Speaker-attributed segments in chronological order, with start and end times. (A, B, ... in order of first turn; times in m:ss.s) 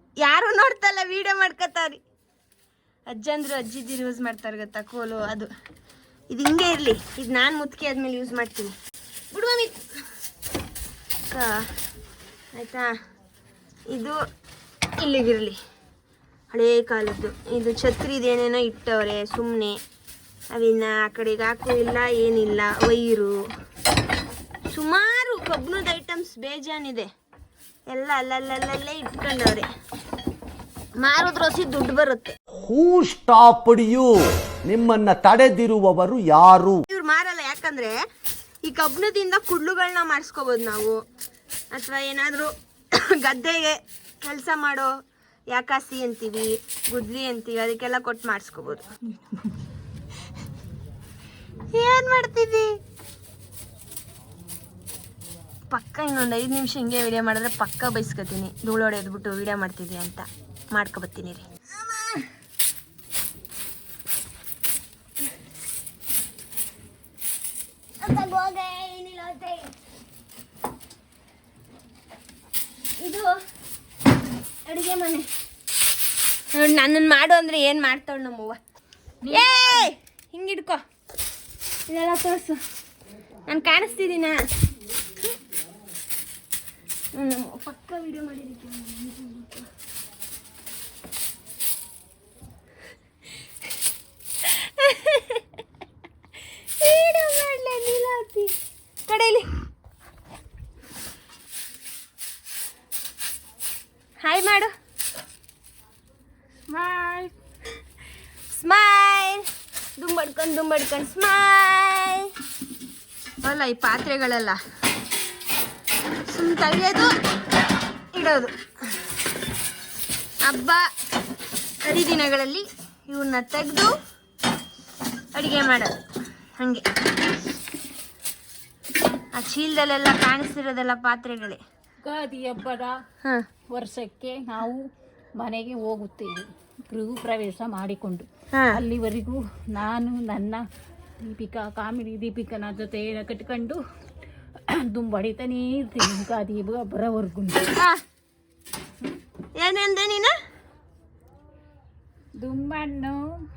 0:00.2-0:02.0 A
0:03.1-0:05.5 A
0:06.3-0:08.7 A
0:09.3-0:09.8 A
0:11.3-0:11.5 A
0:12.5-0:12.9 A
0:13.9-0:14.2 A
0:15.0-0:15.6 A
0:16.5-0:19.8 A
0:20.5-0:23.4 A
0:24.7-0:27.1 A
0:27.9-0:29.7 A
0:31.0-0:32.4 A
0:32.5-0:34.1 B
0:34.6-0:36.8 B
0:36.9-0:37.9 A
0:38.6-0:41.0 A
0:41.7-0:44.9 A
0:45.5-0:48.8 A
0:51.7-0:52.7 A
0:55.7-1:02.2 A
1:08.0-1:09.7 A
1:13.0-1:13.3 A
1:14.6-1:15.2 A
1:16.5-1:18.6 A
1:19.2-1:19.9 C
1:19.3-1:20.8 A
1:21.9-1:22.6 A
1:23.5-1:24.4 A
1:27.2-1:29.7 A
1:34.4-1:35.4 A
1:36.8-1:38.5 A
1:39.1-1:39.4 A
1:44.2-1:44.7 A
1:46.7-1:47.3 C
1:48.5-1:49.4 A
1:50.0-1:52.3 A
1:53.4-1:54.6 A
1:56.3-1:57.1 A
1:58.1-1:58.5 A
2:00.4-2:00.8 A
2:01.8-2:03.9 A
2:05.4-2:05.9 A
2:06.6-2:06.8 A
2:09.3-2:11.6 A
2:12.0-2:13.0 C
2:13.7-2:14.8 C
2:15.4-2:20.6 C
2:18.5-2:18.8 A
2:21.2-2:23.8 C
2:24.7-2:27.7 C
2:27.8-2:28.0 A
2:29.6-2:30.3 A
2:32.4-2:33.2 C